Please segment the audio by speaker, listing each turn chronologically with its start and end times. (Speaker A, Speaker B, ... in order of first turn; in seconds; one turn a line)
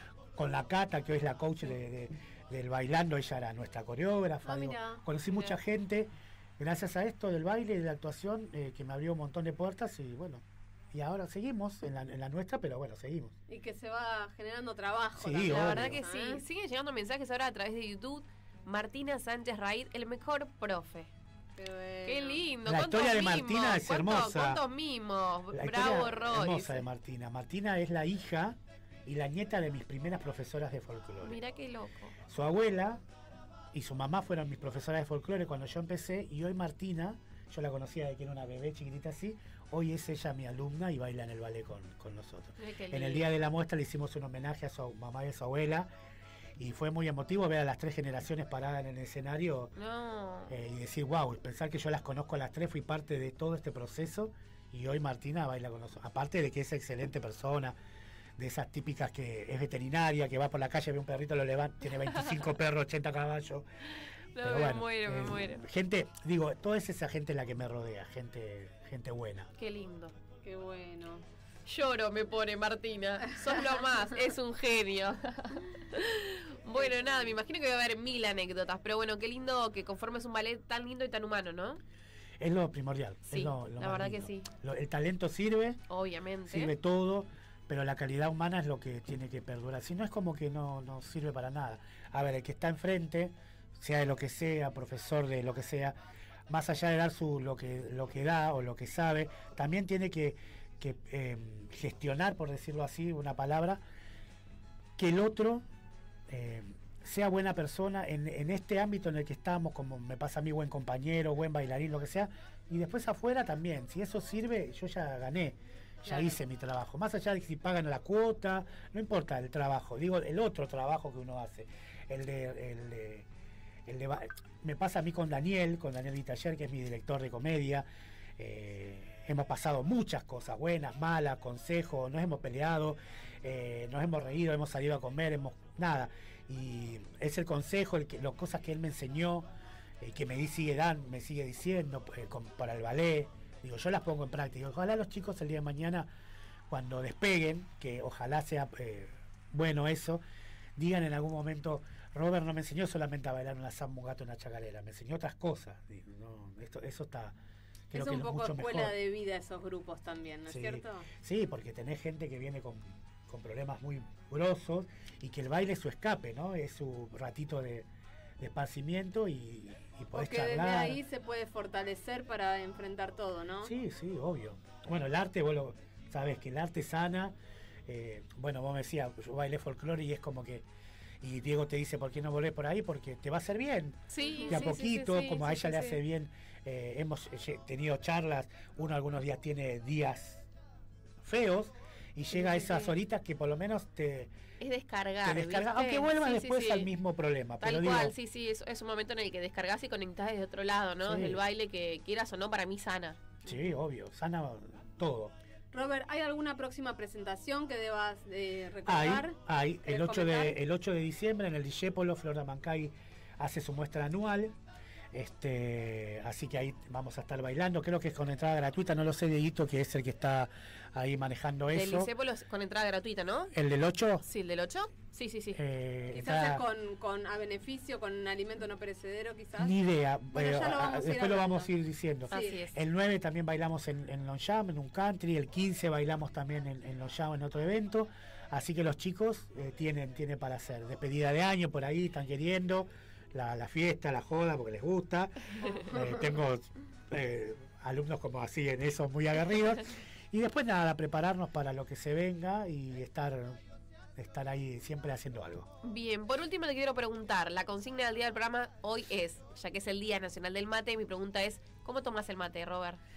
Speaker A: 0.3-13.3
Speaker B: 4.4-5.0
Speaker B: 13.5-16.4
Speaker A: 15.2-16.0
Speaker C: 15.4-21.1
Speaker B: 21.6-22.4
Speaker C: 22.1-26.8
Speaker A: 22.6-24.6
Speaker A: 25.5-31.4
Speaker C: 31.2-32.1
Speaker A: 32.3-33.0
Speaker A: 33.7-45.9
Speaker C: 42.6-43.2
Speaker A: 46.6-49.7
Speaker C: 49.8-50.5
Speaker A: 50.5-57.8
Speaker A: 58.4-63.6
Speaker C: 64.3-65.6
Speaker A: 64.4-69.5
Speaker C: 69.6-70.1
Speaker B: 70.4-71.2
Speaker C: 71.7-81.8
Speaker B: 76.8-77.3
Speaker A: 82.4-85.8
Speaker C: 83.3-84.5
Speaker C: 85.9-86.7
Speaker A: 86.5-95.9
Speaker A: 96.5-103.8
Speaker A: 105.0-105.6
Speaker A: 106.3-123.3
Speaker B: 116.1-116.4
Speaker A: 123.8-127.8
Speaker A: 128.4-139.5
Speaker A: 140.0-146.1
Speaker A: 146.7-150.2
Speaker A: 150.8-157.3
Speaker A: 157.9-158.9
Speaker B: 157.9-161.1
Speaker A: 160.5-167.9
Speaker A: 168.4-171.0
Speaker B: 170.1-173.7
Speaker A: 173.6-177.3
Speaker A: 177.9-180.7
Speaker A: 181.2-190.5
Speaker C: 184.1-186.0
Speaker B: 184.3-184.6
Speaker A: 191.2-194.3
Speaker C: 192.4-192.9
Speaker C: 194.6-196.9
Speaker A: 195.2-198.1
Speaker C: 197.6-203.3
Speaker A: 201.0-201.4
Speaker A: 203.4-205.3
Speaker B: 205.7-210.6
Speaker A: 208.8-214.5
Speaker A: 215.1-222.1
Speaker C: 221.7-223.5
Speaker A: 223.5-224.2
Speaker C: 224.2-225.6
Speaker A: 225.5-226.6
Speaker B: 226.1-229.8
Speaker A: 229.6-253.6
Speaker B: 230.3-231.7
Speaker B: 232.3-232.6
Speaker C: 232.3-232.8
Speaker A: 254.2-255.7
Speaker C: 255.8-263.0